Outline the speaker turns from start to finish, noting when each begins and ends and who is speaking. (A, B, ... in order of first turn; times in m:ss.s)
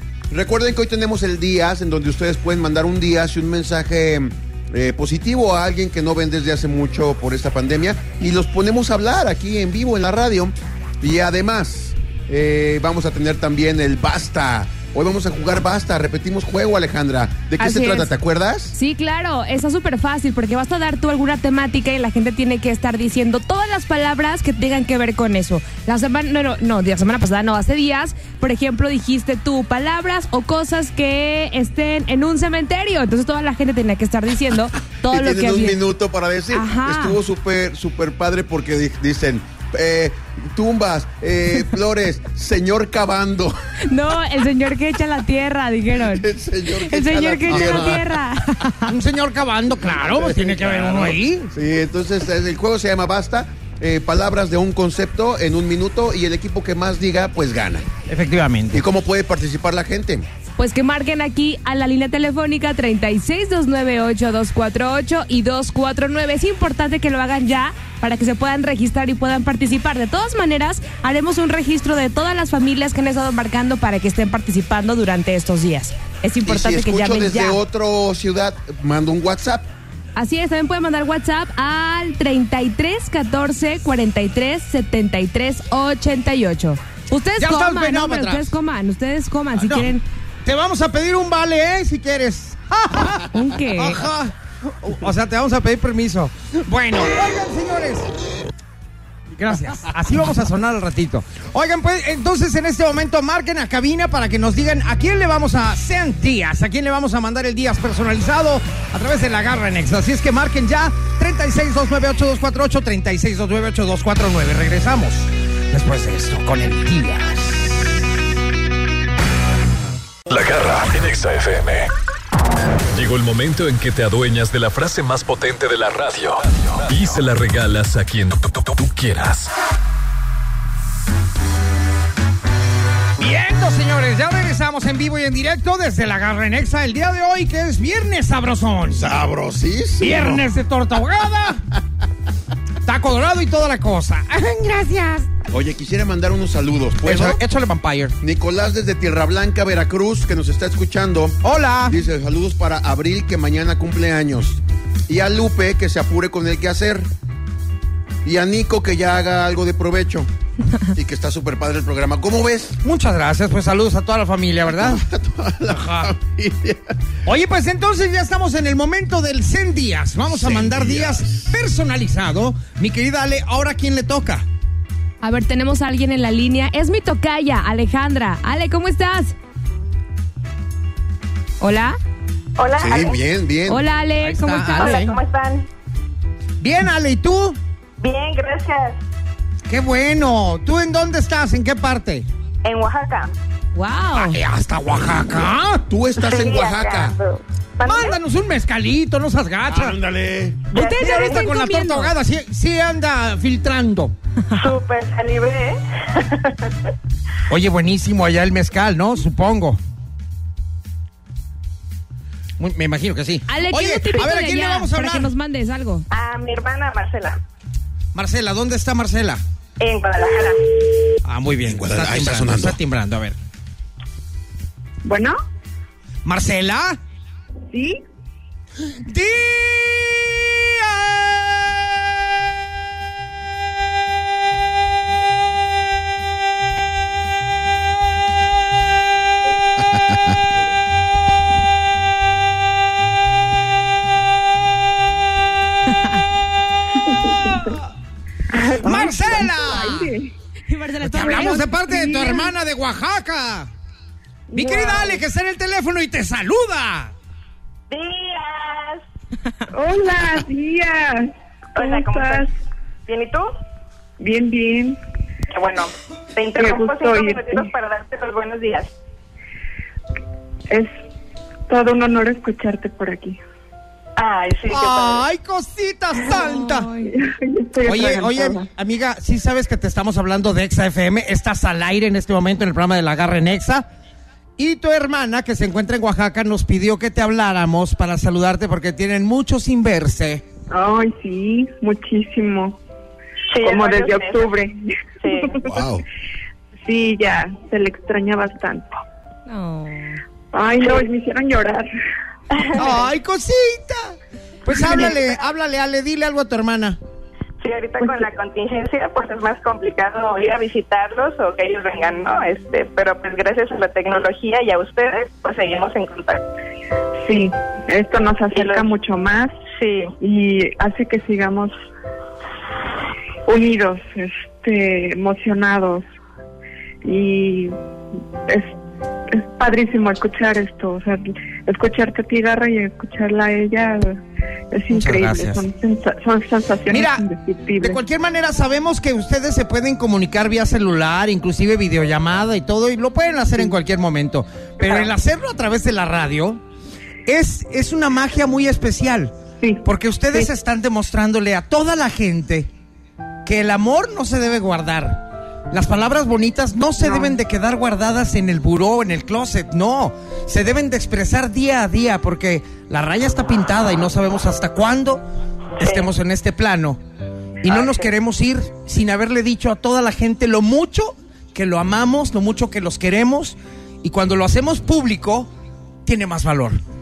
0:00.3-0:18.8 A
0:17.6-0:18.1 B
0:18.7-0:35.8 B
0:35.1-0:43.5 A
0:36.5-0:37.2 B
0:43.9-0:48.9 B
0:46.0-0:48.1 A
0:47.5-0:48.0 C
0:48.9-0:51.5 C
0:49.7-0:57.9 A
0:58.1-0:58.8 C
0:58.7-1:00.3 A
1:00.6-1:17.6 B
1:16.4-1:19.7 A
1:20.2-1:30.0 B
1:27.4-1:28.5 C
1:29.5-1:29.9 C
1:30.4-1:38.1 C
1:33.3-1:34.0 B
1:39.3-1:58.0 C
2:00.3-2:01.9 D
2:02.9-2:09.5 D
2:13.2-2:19.1 C
2:18.9-2:20.5 A
2:20.0-2:21.6 C
2:22.8-2:25.3 C
2:25.5-2:27.4 A
2:27.0-2:28.2 C
2:28.2-2:37.1 A
2:31.4-2:32.0 C
2:38.2-2:40.3 A
2:40.9-2:42.8 A
2:42.8-2:45.0 C
2:44.7-2:47.0 A
2:47.2-2:54.4 C
2:50.3-2:51.6 A
2:55.2-2:59.3 B
3:01.6-3:02.0 B
3:02.6-3:03.2 E
3:02.8-3:03.8 A
3:03.7-3:05.0 B
3:04.2-3:05.2 C
3:04.8-3:05.6 E
3:06.6-3:07.6 C
3:08.0-3:09.0 E
3:09.7-3:12.2 C
3:12.6-3:13.3 E
3:13.7-3:14.4 B
3:14.1-3:15.8 C
3:15.9-3:17.2 A
3:16.2-3:18.2 E
3:17.8-3:20.0 C
3:19.6-3:20.7 A
3:20.7-3:21.5 E
3:20.7-3:22.1 B
3:20.8-3:24.1 C
3:24.5-3:26.7 E
3:27.5-3:29.8 C
3:32.6-3:35.3 C
3:33.5-3:36.0 B
3:36.1-3:37.4 E
3:38.1-3:39.4 C
3:39.8-3:40.8 E
3:41.2-3:43.4 C
3:41.6-3:42.8 A
3:45.0-3:45.3 F
3:46.2-3:47.0 C
3:47.7-3:48.0 F
3:49.0-3:52.0 C
3:59.9-4:00.3 A
4:05.9-4:06.2 B
4:06.9-4:07.7 F
4:07.3-4:07.8 C
4:08.8-4:10.3 F
4:08.8-4:10.2 C
4:10.7-4:11.8 B
4:11.0-4:13.7 C
4:11.2-4:12.5 F
4:14.5-4:15.2 F
4:14.5-4:17.1 C
4:17.9-4:19.0 E
4:19.7-4:22.5 F
4:21.8-4:22.5 E
4:23.1-4:23.5 E
4:24.2-4:25.0 F
4:25.5-4:28.9 E
4:26.6-4:27.7 F
4:31.7-4:33.4 F
4:34.2-4:35.2 E
4:34.7-4:36.9 C
4:36.3-4:37.1 B
4:37.1-4:38.6 F
4:37.8-4:43.9 C
4:44.6-4:50.4 C
4:50.7-4:52.8 F
4:53.5-4:54.5 E
4:53.6-4:54.8 F
4:55.2-4:55.6 E
4:55.6-4:56.0 A
4:56.8-4:58.9 F
4:59.5-5:00.2 B
5:00.5-5:01.9 F
5:00.8-5:01.1 E
5:02.5-5:02.9 E
5:02.8-5:07.0 C
5:04.7-5:05.1 F
5:07.6-5:16.4 E
5:17.2-5:19.5 F
5:18.5-5:18.9 E
5:19.7-5:20.1 E
5:20.2-5:21.7 F
5:23.5-5:26.0 F
5:27.0-5:27.7 F
5:28.5-5:28.7 F
5:29.3-5:34.2 F
5:34.7-5:38.0 F
5:34.9-5:35.6 C
5:36.9-5:37.3 C
5:37.8-5:46.6 C
5:47.2-5:49.3 C
5:49.8-5:52.7 C
5:53.4-6:05.2 C
5:57.0-5:57.3 F
6:05.8-6:07.0 C
6:07.6-6:15.5 C
6:07.7-6:08.0 E
6:16.0-6:16.8 C